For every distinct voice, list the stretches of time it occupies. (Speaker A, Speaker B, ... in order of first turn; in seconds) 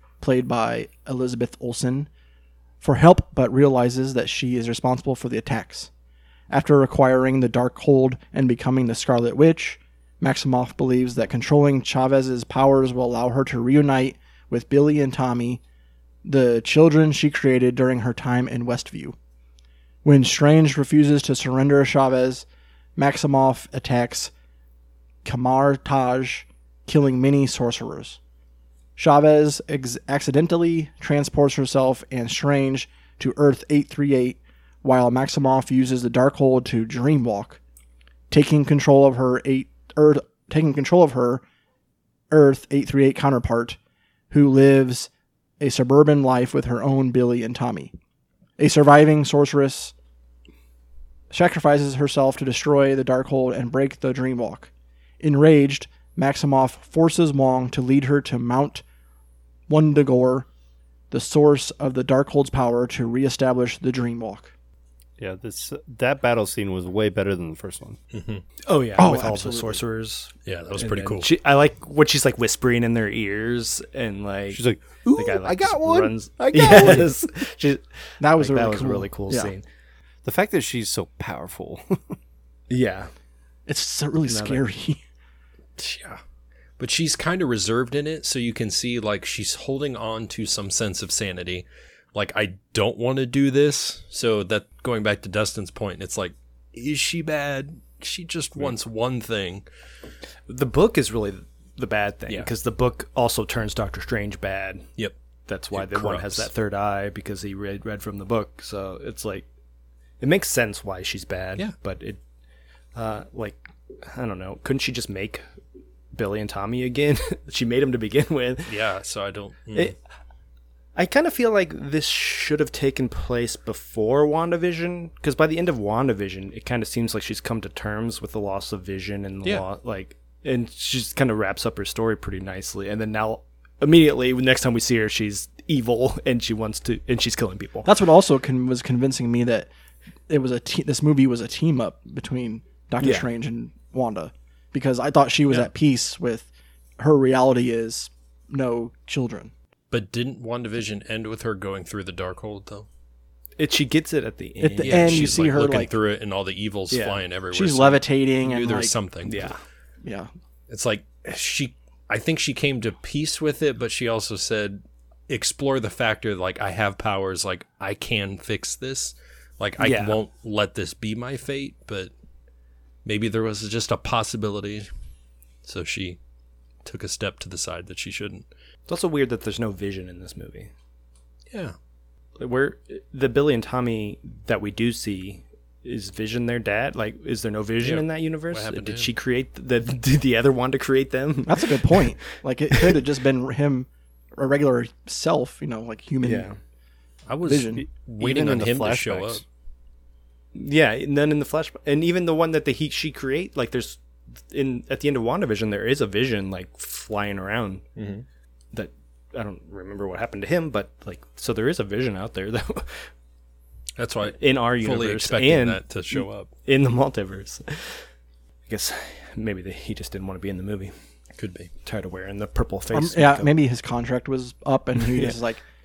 Speaker A: 0.2-2.1, 2.8-5.9, 6.5-15.6, 16.2-19.1, 20.0-22.4, 23.0-24.3, 25.2-28.2, 29.0-37.6, 38.3-41.4, 42.3-43.8, 44.3-47.9, 48.6-49.9, 51.3-58.8, 59.7-60.5, 61.1-64.5, 69.0-69.8, 78.2-79.5, 83.7-85.0, 137.8-139.7, 140.3-146.5, 147.0-149.5, 154.6-155.9, 157.5-159.0, 160.0-160.3, 191.5-196.5, 197.4-197.8, 222.9-225.6
Speaker B: 65.2-68.0, 74.5-77.2, 80.2-82.2, 198.2-199.4
Speaker C: 68.1-68.4, 70.4-71.3, 85.8-86.2, 86.8-99.6, 105.7-106.5, 118.7-119.9, 149.9-152.9, 154.8-159.5, 160.7-172.1, 173.0-174.9, 175.6-176.2, 176.8-178.5, 181.5-181.8, 187.8-189.1, 197.3-199.4, 207.9-208.2, 214.0-216.5, 221.3-221.7
Speaker D: 68.6-79.6, 82.7-83.1, 84.2-84.6, 100.5-104.9, 105.5-109.5, 110.2-112.2, 112.9-115.4, 116.1-118.8, 121.0-137.9, 143.0-143.3, 153.6-155.6, 156.9-157.2, 159.2-159.6, 169.8-170.2, 178.9-180.7, 182.4-193.0, 196.2-196.6, 200.5-207.8, 208.7-213.1, 214.2-218.1, 218.7-221.0, 221.8-223.5, 225.1-225.4